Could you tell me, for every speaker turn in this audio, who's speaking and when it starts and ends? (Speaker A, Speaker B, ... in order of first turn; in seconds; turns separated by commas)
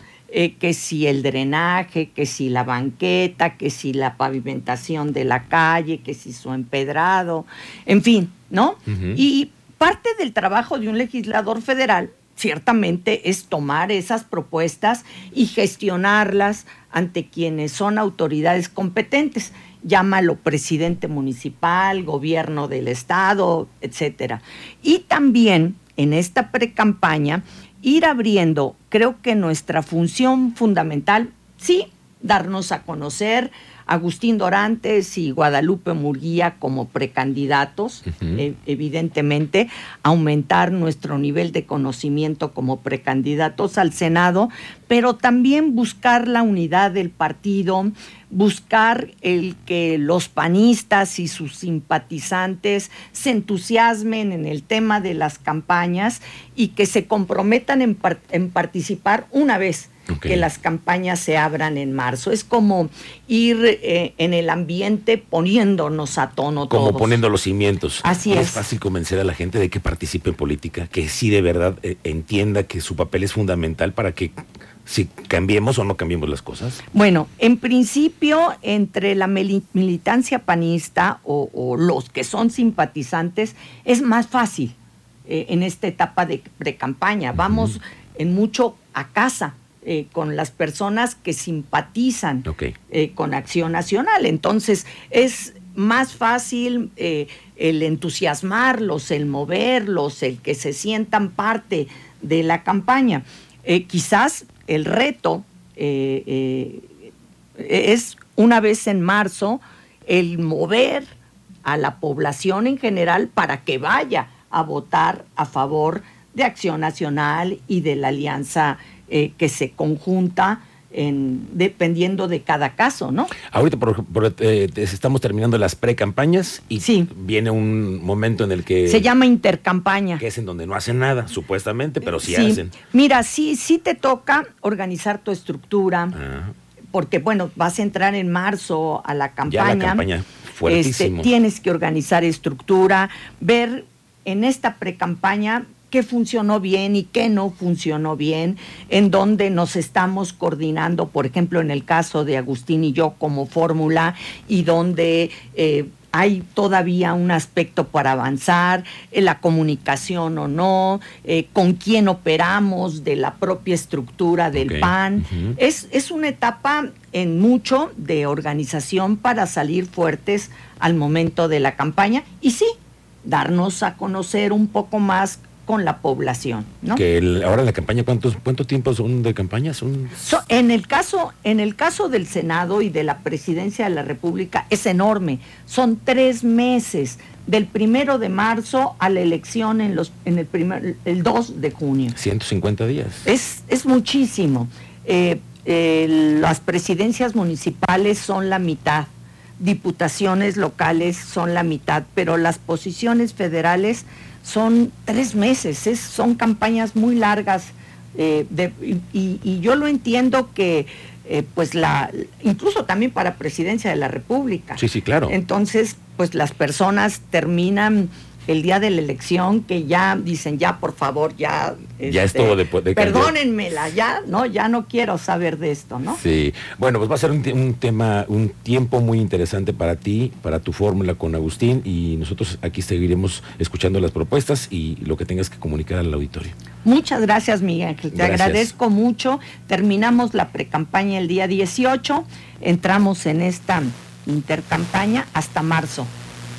Speaker A: 0.3-67.2, Speaker B: 8.9-9.2, Speaker B: 38.1-38.4, Speaker B: 60.1-60.4, Speaker B: 66.7-76.8, Speaker A: 68.0-68.6, Speaker A: 76.9-106.9, Speaker B: 87.4-87.7, Speaker B: 92.5-92.7, Speaker A: 107.6-111.1, Speaker A: 111.6-123.3, Speaker B: 123.5-129.1, Speaker A: 126.8-127.1, Speaker A: 128.8-130.2, Speaker B: 130.2-132.7, Speaker A: 132.1-136.1, Speaker B: 136.1-136.5, Speaker A: 136.9-140.0, Speaker B: 139.5-141.3, Speaker A: 140.6-172.7, Speaker B: 164.5-165.6, Speaker A: 173.2-177.0, Speaker B: 176.9-180.2, Speaker A: 180.2-192.2, Speaker B: 192.1-193.3, Speaker A: 193.2-226.2, Speaker B: 214.8-215.3, Speaker B: 222.0-223.3, Speaker B: 226.1-236.5, Speaker A: 236.8-246.1, Speaker B: 238.1-238.7